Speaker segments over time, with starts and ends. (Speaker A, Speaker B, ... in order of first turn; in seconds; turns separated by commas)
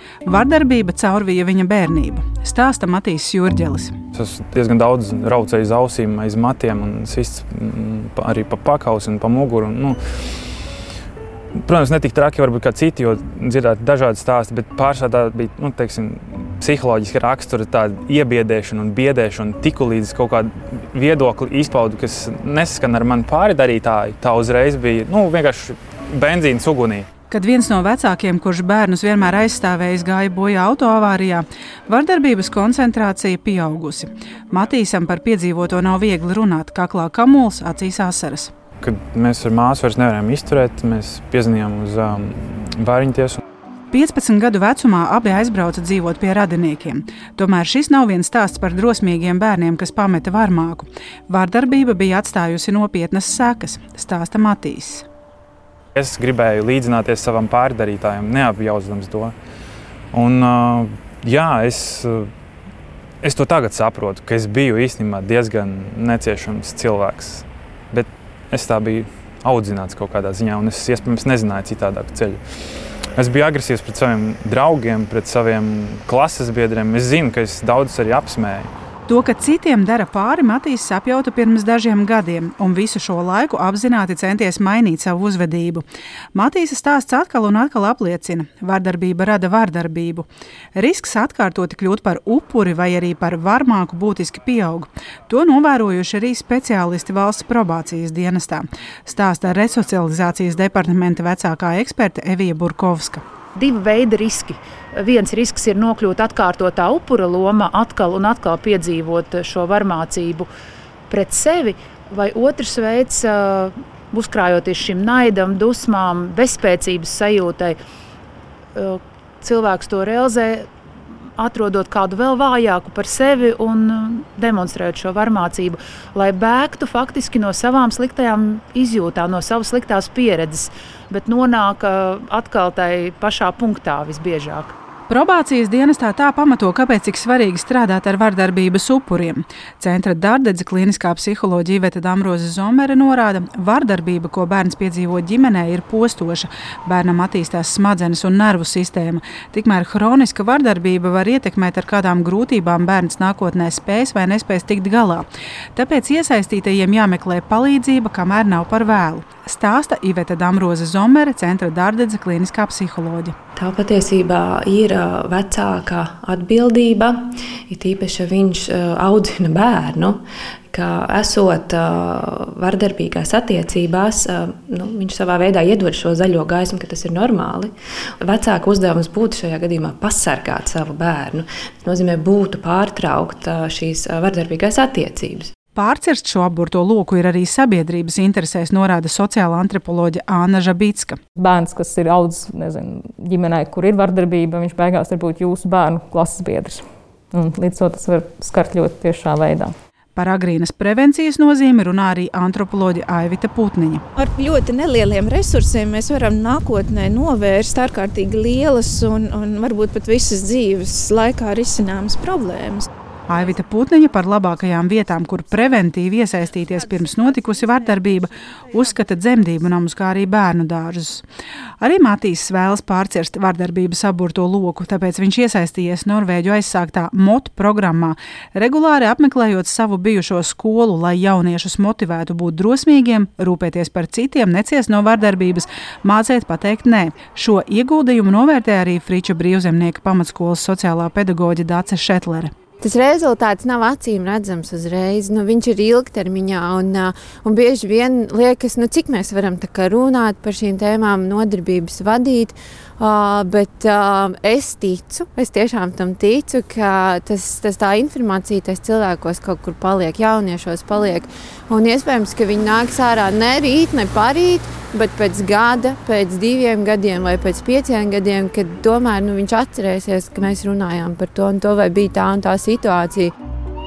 Speaker A: 0.2-3.9, Speaker B: 4.1-10.4, Speaker B: 11.7-27.1, Speaker A: 27.3-38.5, Speaker B: 38.8-43.4, Speaker A: 43.9-55.0, Speaker B: 56.0-59.3, Speaker B: 60.1-62.3, Speaker B: 63.2-72.4, Speaker B: 73.2-78.7, Speaker A: 79.1-103.2, Speaker C: 103.5-110.5, Speaker C: 111.1-117.8, Speaker C: 118.7-120.7, Speaker C: 121.4-134.7, Speaker A: 135.1-163.3, Speaker D: 163.6-185.5, Speaker A: 185.7-191.2, Speaker E: 191.3-199.7, Speaker A: 200.1-204.0, Speaker F: 204.2-212.9, Speaker A: 213.3-221.2, Speaker A: 221.8-242.5, Speaker G: 242.8-273.3